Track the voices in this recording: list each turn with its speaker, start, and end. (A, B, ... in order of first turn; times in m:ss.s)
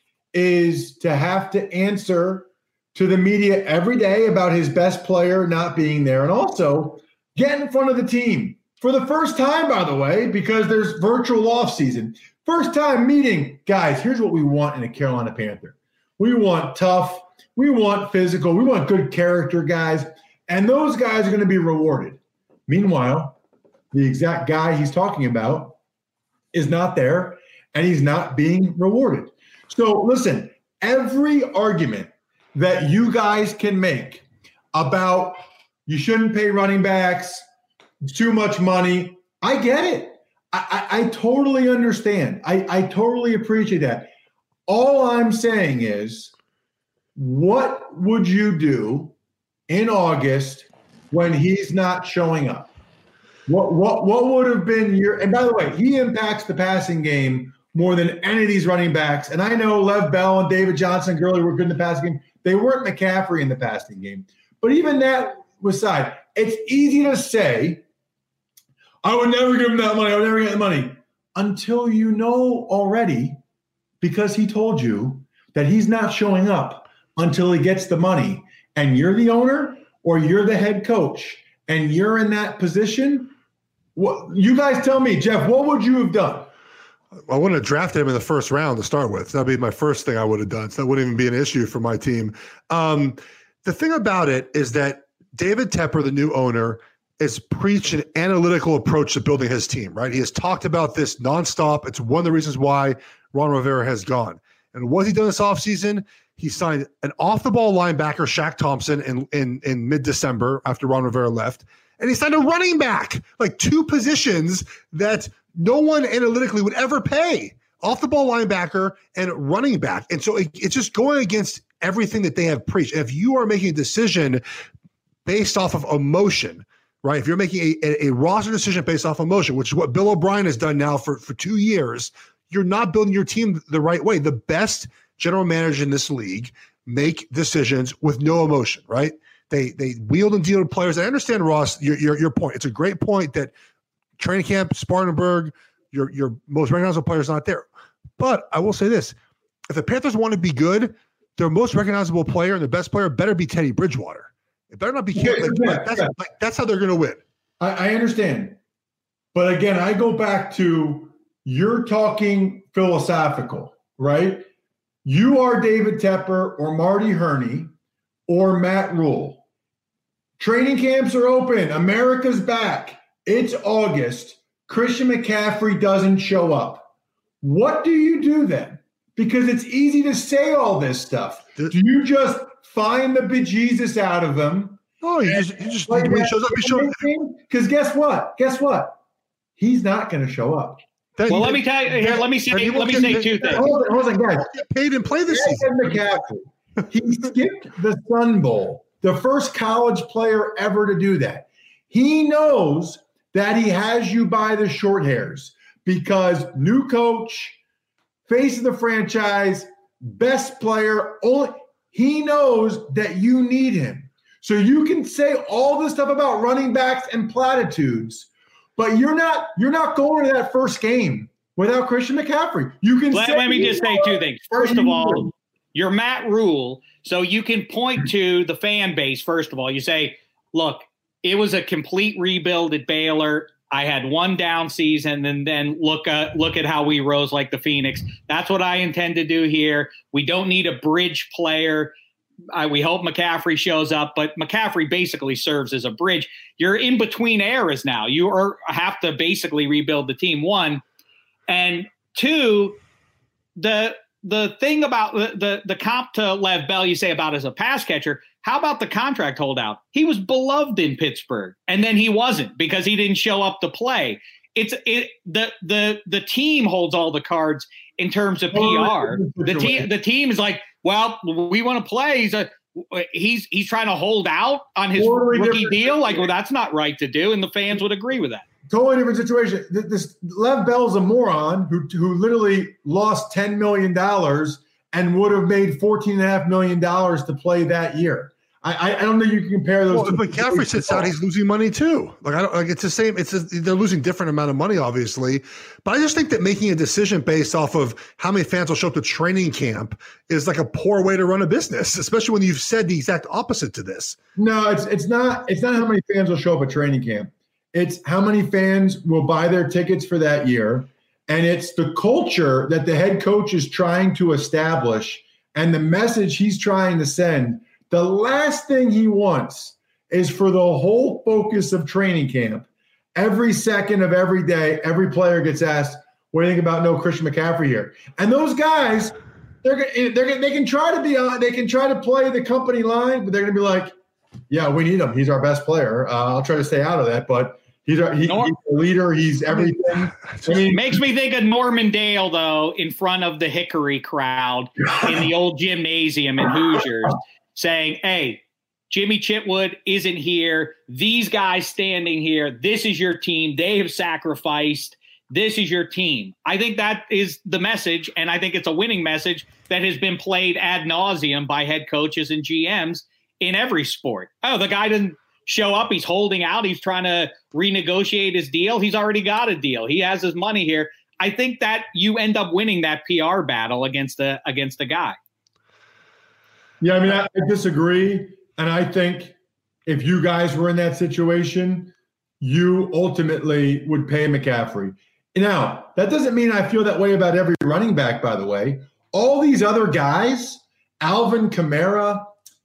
0:00.3-0:23.4 A
0:23.9-0:25.8 A
0:26.5-0:37.4 A
0:38.0-0:44.1 A
0:44.7-0:46.3 A
0:47.2-0:49.1 A
0:49.7-0:52.7 A
0:53.5-1:07.8 A
1:09.0-1:13.4 A
1:14.0-1:23.3 A
1:24.0-1:26.5 A
1:27.3-2:04.4 B
2:05.2-2:23.5 B
2:24.2-2:27.7 B
2:28.2-2:29.2 B
2:29.7-2:37.2 B
2:35.2-2:36.1 A
2:37.6-2:38.6 A
2:39.3-2:44.5 A
2:45.0-2:47.7 A
2:48.3-2:49.4 A
2:50.4-2:56.9 A
2:57.4-3:09.0 A
3:05.0-3:07.0 B
3:09.6-3:10.8 A
3:11.2-3:13.8 B
3:11.3-3:13.6 C
3:13.0-3:14.5 A
3:14.5-3:15.9 B
3:15.3-3:27.6 A
3:28.3-3:45.3 A
3:43.1-4:01.9 C
4:02.5-4:10.8 C
4:11.5-4:12.8 C
4:13.6-4:38.4 C
4:28.5-4:29.9 A
4:35.0-4:36.3 A
4:38.7-4:51.1 A
4:49.9-5:04.2 B
5:04.4-5:33.9 A
5:34.5-5:41.0 A
5:38.2-5:38.5 C
5:40.7-6:15.2 C
5:44.9-5:45.2 A
6:16.8-6:32.3 A